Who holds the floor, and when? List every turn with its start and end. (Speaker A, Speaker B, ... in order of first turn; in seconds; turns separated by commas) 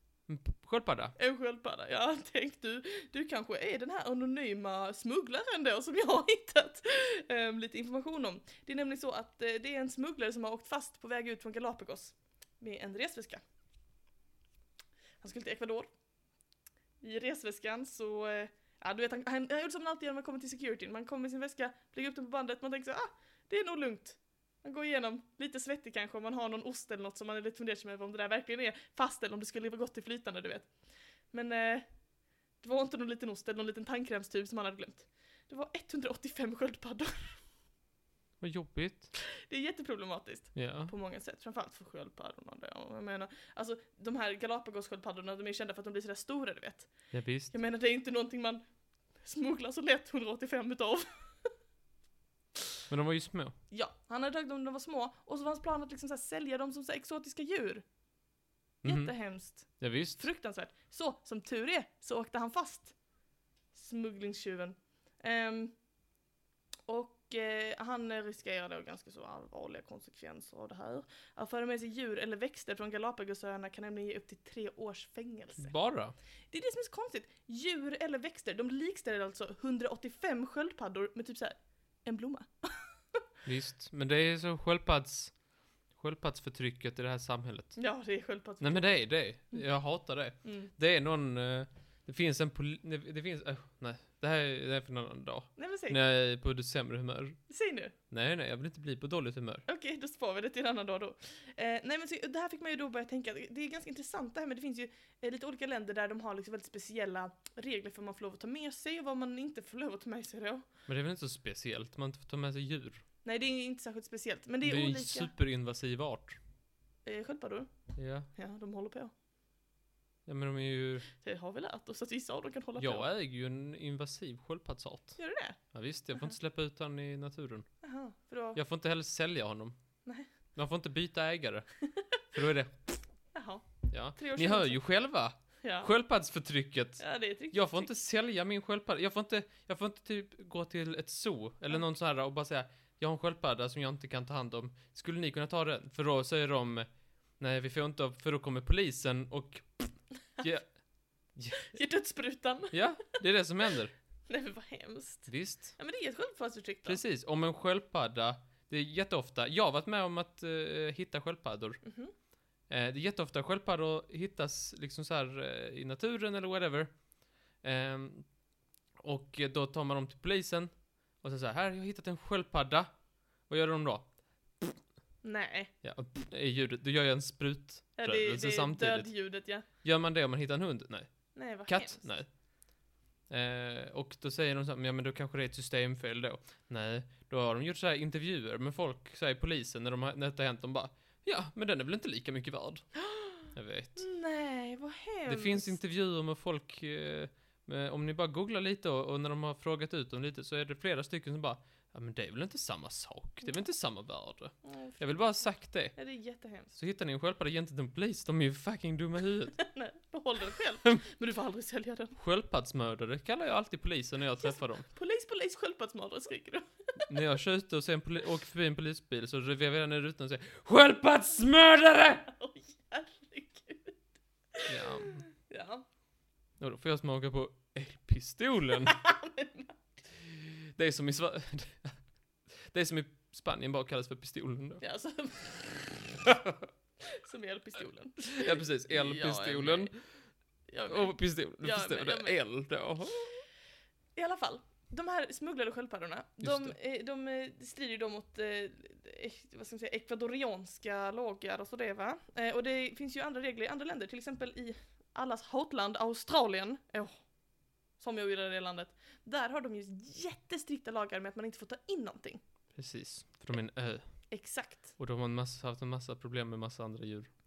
Speaker A: 0.3-1.1, Speaker B: 1.1-13.4, Speaker B: 15.2-15.9, Speaker B: 17.0-30.7, Speaker B: 31.3-32.0, Speaker B: 32.6-37.4, Speaker A: 38.4-39.1, Speaker B: 39.3-48.6, Speaker A: 40.5-40.9, Speaker A: 47.1-47.5, Speaker B: 49.2-51.1, Speaker A: 52.9-53.5, Speaker B: 53.7-57.8, Speaker A: 58.8-60.2, Speaker B: 58.8-63.0, Speaker B: 63.7-65.8, Speaker B: 66.9-75.7, Speaker A: 75.6-76.1, Speaker B: 76.5-83.2, Speaker A: 83.4-85.3, Speaker A: 85.9-87.9, Speaker B: 87.8-89.6, Speaker A: 88.6-97.4, Speaker B: 90.4-90.7, Speaker B: 95.5-96.0, Speaker B: 97.5-97.9, Speaker A: 98.1-99.6, Speaker B: 99.7-110.7, Speaker A: 110.9-113.0, Speaker B: 113.2-115.3, Speaker A: 114.6-116.3, Speaker B: 117.0-119.1, Speaker A: 118.0-118.3, Speaker A: 120.2-121.1, Speaker B: 121.2-123.1, Speaker A: 122.8-125.2, Speaker B: 125.2-125.6, Speaker A: 125.7-127.7, Speaker B: 127.8-128.6, Speaker A: 128.5-129.8, Speaker A: 130.5-131.7, Speaker A: 132.3-132.9, Speaker B: 133.3-134.8, Speaker A: 133.9-151.7, Speaker B: 135.6-135.9, Speaker B: 137.0-137.9, Speaker B: 151.7-152.8, Speaker A: 152.7-153.9, Speaker B: 154.3-157.0, Speaker A: 155.3-155.8, Speaker A: 156.8-161.8, Speaker B: 161.8-162.1, Speaker A: 162.7-166.9, Speaker A: 167.6-168.3, Speaker A: 169.0-174.7, Speaker B: 175.2-175.7, Speaker A: 175.8-182.4, Speaker B: 178.0-179.7, Speaker B: 181.3-182.0, Speaker A: 183.3-194.1, Speaker B: 193.1-195.7, Speaker A: 195.3-206.0, Speaker B: 204.6-206.7, Speaker A: 206.7-209.6, Speaker B: 209.6-212.2, Speaker A: 212.2-214.8, Speaker B: 214.4-217.1, Speaker A: 217.1-222.2, Speaker B: 222.2-224.0, Speaker A: 224.7-225.2, Speaker B: 225.4-225.8, Speaker A: 226.6-228.9, Speaker B: 228.8-229.8, Speaker A: 230.3-234.8, Speaker B: 234.8-236.2, Speaker A: 236.3-236.6, Speaker B: 237.2-240.0, Speaker A: 238.4-240.0, Speaker B: 240.7-242.4, Speaker A: 240.9-243.4, Speaker B: 244.1-257.3, Speaker A: 246.4-246.7, Speaker B: 258.0-262.4, Speaker A: 262.8-267.3, Speaker B: 264.3-264.9